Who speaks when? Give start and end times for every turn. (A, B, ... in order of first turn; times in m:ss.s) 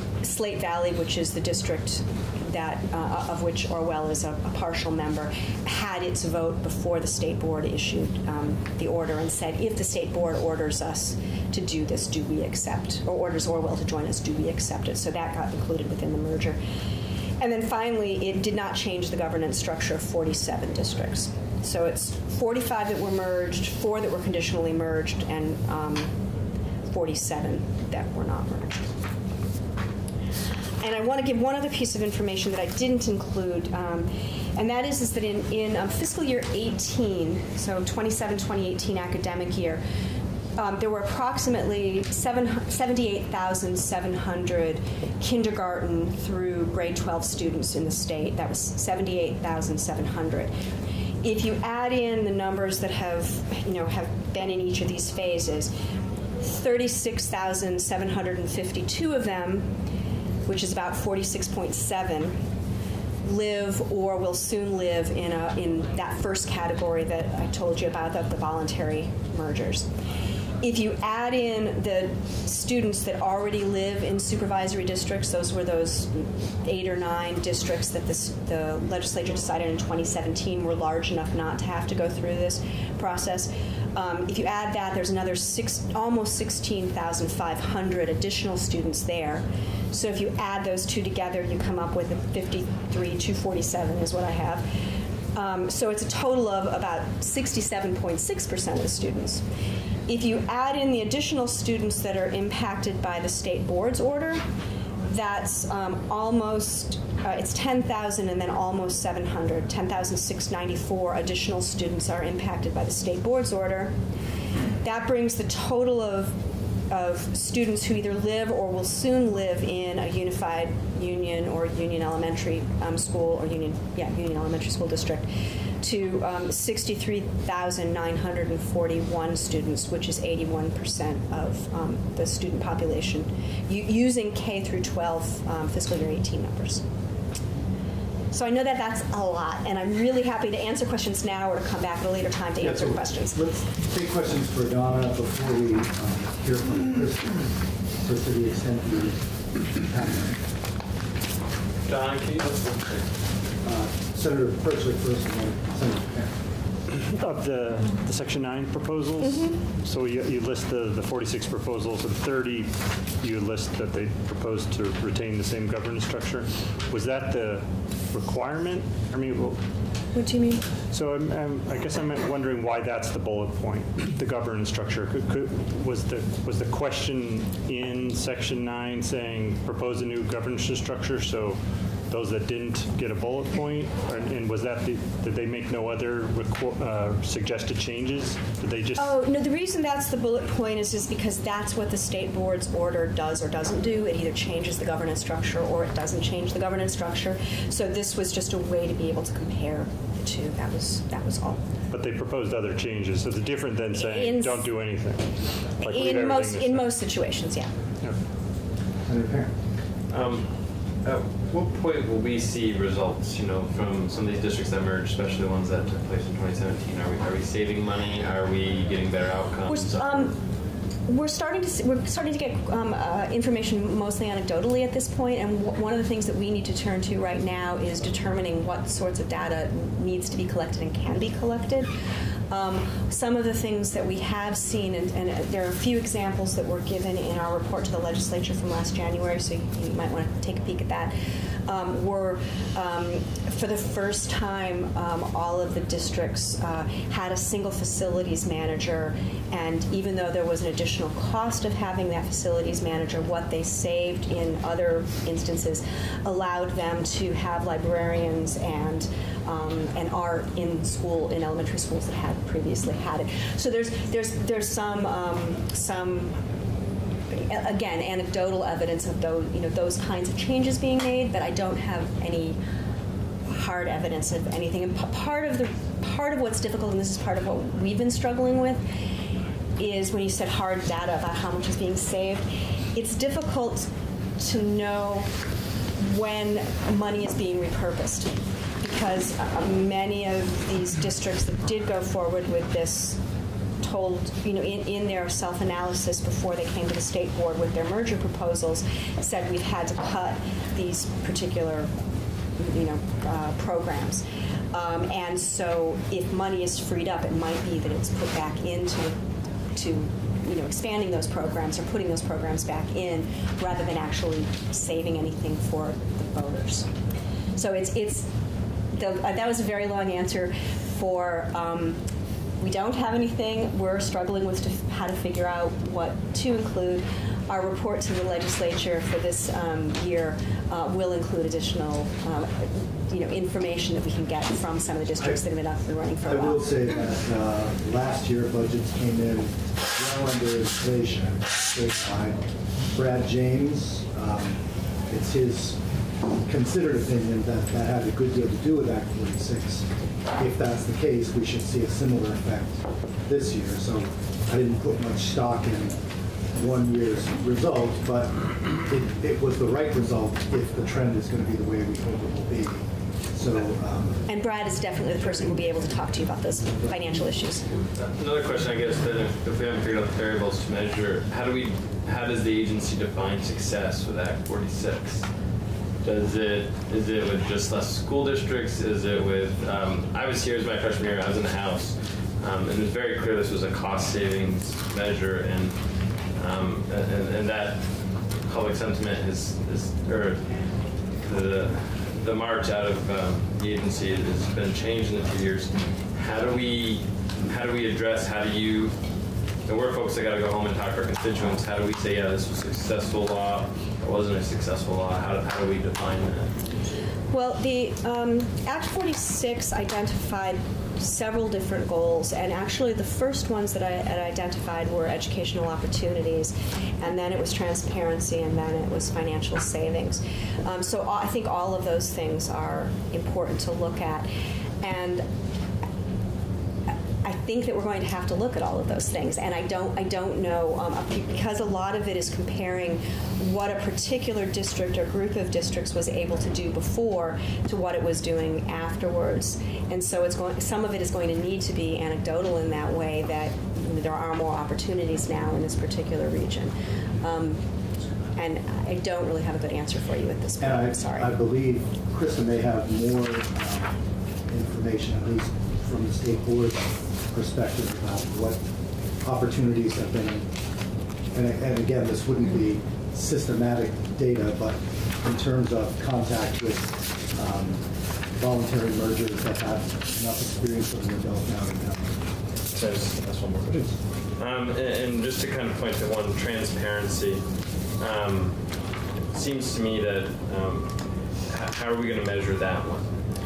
0:00.2-0:16.6 A
0:17.4-0:26.1 A
0:26.9-0:28.9 A
0:30.8-0:39.8 A
0:40.6-0:50.5 A
0:51.2-0:55.7 A
0:56.4-0:59.7 A
1:00.4-1:02.4 A
1:03.2-1:09.9 A
1:10.6-1:34.6 A
1:35.3-1:39.4 A
1:40.1-1:44.4 A
1:45.1-1:53.9 A
1:54.8-1:56.3 A
1:56.9-2:05.3 A
2:05.8-2:16.8 A
2:18.3-2:23.4 A
2:22.6-2:30.3 B
2:31.8-2:33.0 C
2:33.6-2:36.3 B
2:37.1-2:49.6 D
2:39.2-2:39.5 A
2:50.1-2:50.6 A
2:50.9-3:01.6 D
3:02.1-3:09.2 D
3:09.0-3:21.6 A
3:21.9-3:26.9 D
3:24.0-3:24.6 A
3:25.8-3:27.7 A
3:29.0-3:29.5 B
3:30.1-3:30.5 C
3:31.0-3:40.3 C
3:39.7-3:40.4 A
3:41.1-3:51.9 A
3:52.5-4:01.1 A
4:01.6-4:26.4 A
4:27.3-4:32.6 A
4:33.5-4:38.8 A
4:39.8-4:45.3 A
4:46.0-4:53.2 A
4:53.8-5:01.9 A
5:02.6-5:09.2 A
5:09.7-5:16.9 A
5:17.6-5:18.3 A
5:18.9-5:22.0 A
5:22.6-5:36.6 A
5:36.2-5:45.8 B
5:46.4-5:56.0 B
5:56.5-6:04.2 B
6:04.3-6:07.8 A
6:07.9-6:15.3 C
6:16.0-6:25.8 C
6:26.3-6:30.5 C
6:31.2-6:39.0 C
6:39.6-6:46.6 C
6:47.3-7:04.3 A
7:04.8-7:05.2 A
7:07.2-7:27.6 A
7:28.3-7:31.3 A
7:30.6-7:38.6 B
7:39.2-7:40.5 B
7:41.3-7:52.2 B
7:52.7-7:57.4 C
7:58.0-7:58.6 C
7:59.3-8:00.9 C
8:01.5-8:03.1 C